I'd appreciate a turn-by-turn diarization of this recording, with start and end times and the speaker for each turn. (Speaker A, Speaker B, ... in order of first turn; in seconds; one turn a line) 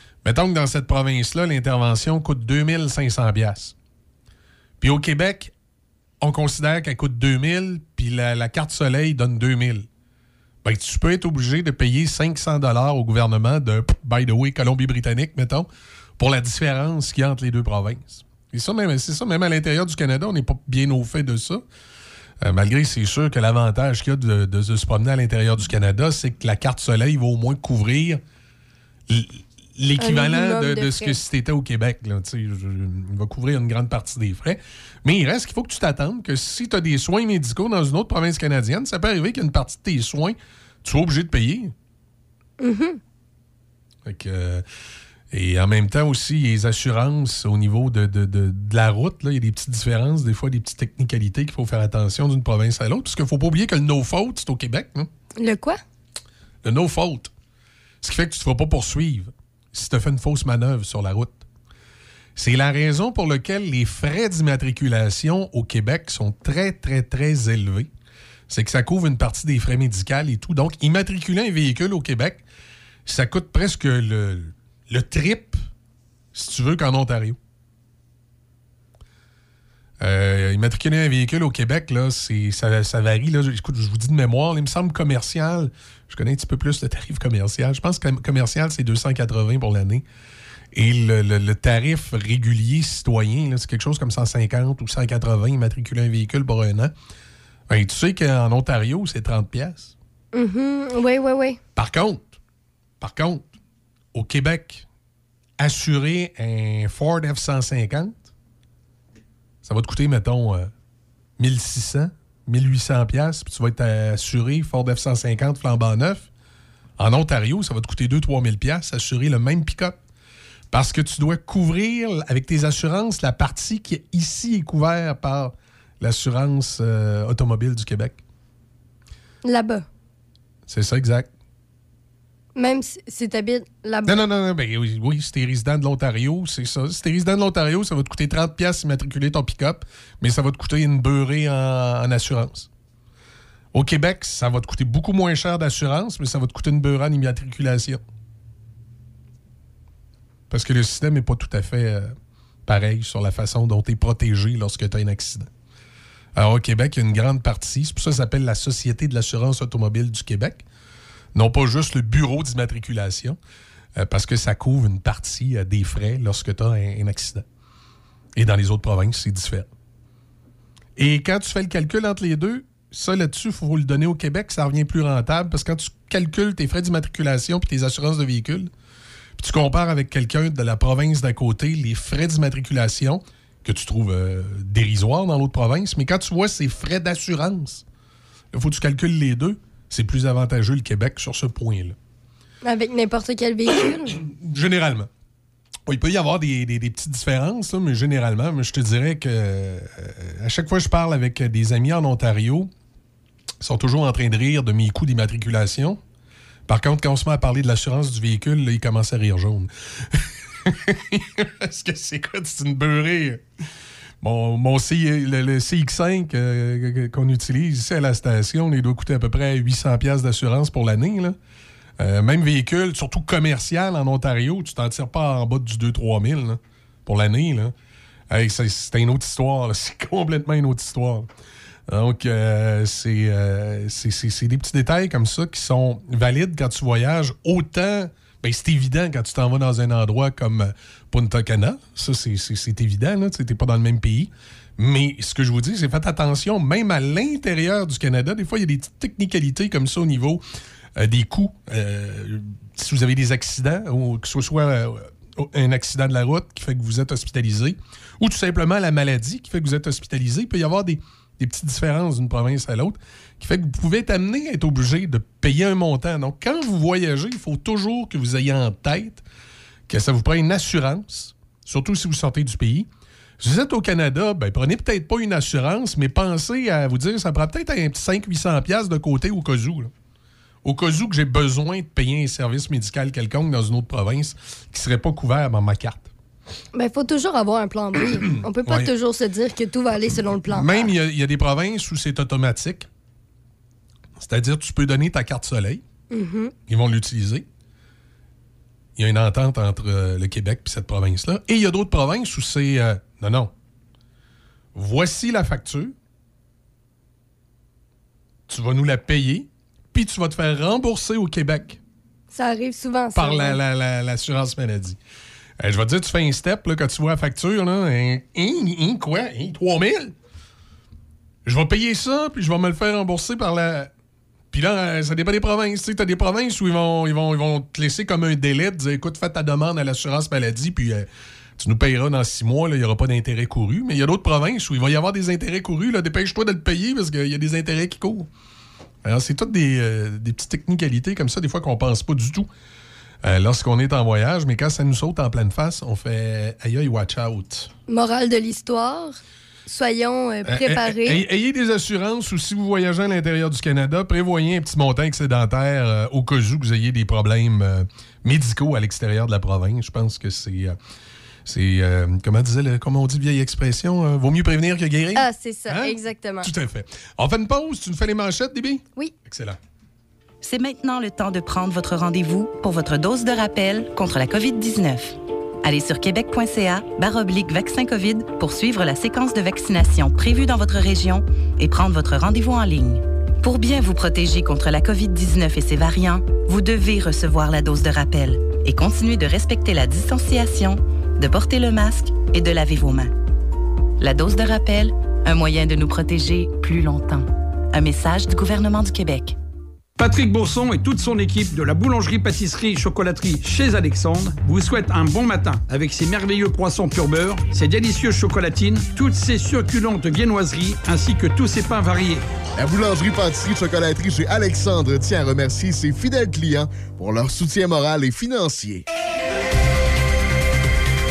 Speaker A: 0.2-3.7
Speaker A: 4.8-5.5
Speaker A: 6.2-9.9
Speaker A: 10.6-15.7
Speaker A: 16.2-21.6
Speaker A: 22.4-28.2
Speaker A: 29.1-41.7
Speaker B: 30.0-31.1
Speaker B: 42.6-43.0
Speaker A: 44.0-44.6
Speaker A: 45.3-55.1
Speaker B: 55.4-55.8
Speaker A: 56.6-57.3
Speaker A: 58.0-61.4
Speaker A: 62.4-67.9
Speaker A: 68.5-72.4
Speaker A: 73.0-75.6
Speaker A: 76.3-77.4
Speaker A: 80.0-90.0
Speaker A: 90.7-96.9
Speaker A: 97.7-99.9
Speaker B: 100.3-101.6
Speaker A: 101.8-102.3
Speaker A: 103.0-103.5
Speaker A: 104.1-104.8
Speaker A: 105.6-108.2
Speaker A: 109.6-110.7
Speaker A: 111.4-116.3
Speaker A: 117.0-120.0
Speaker A: 120.7-128.2
Speaker B: 129.4-129.8
Speaker A: 130.7-131.3
Speaker B: 132.6-134.2
Speaker A: 134.1-142.7
Speaker A: 143.7-148.0
Speaker A: 150.5-152.1
Speaker A: 152.7-155.5
Speaker A: 156.3-160.6
Speaker A: 161.3-163.4
Speaker A: 164.0-167.4
Speaker A: 168.3-169.7
Speaker A: 171.0-178.7
Speaker A: 179.4-187.8
Speaker A: 188.5-191.9
Speaker B: 192.6-194.2
Speaker A: 194.1-195.1
Speaker A: 195.9-202.7
Speaker A: 203.6-206.0
Speaker A: 206.7-213.4
Speaker A: 214.2-221.3
Speaker A: 222.0-227.7
Speaker A: 228.3-231.3
Speaker A: 231.9-250.4
Speaker A: 251.0-269.2
Speaker A: 269.9-272.9
Speaker A: 273.4-279.9
Speaker A: 280.6-286.1
Speaker B: 286.7-290.9
Speaker A: 288.6-288.9
Speaker A: 290.5-292.9
Speaker A: 294.2-295.8
Speaker B: 296.1-296.5
Speaker A: 296.7-297.4
Speaker A: 299.0-303.5
Speaker A: 304.7-305.9
Speaker A: 308.5-311.8
Speaker B: 312.3-313.6
Speaker A: 313.1-315.0
Speaker A: 315.6-320.1
Speaker A: 321.4-323.9
Speaker A: 324.5-338.3
Speaker A: 339.0-342.5
Speaker A: 343.2-347.7
Speaker B: 347.9-351.2
Speaker A: 350.4-360.8
Speaker A: 361.4-369.6
Speaker B: 365.1-366.5
Speaker C: 370.4-393.1
Speaker C: 394.0-399.4
Speaker D: 400.0-412.2
Speaker E: 412.6-418.8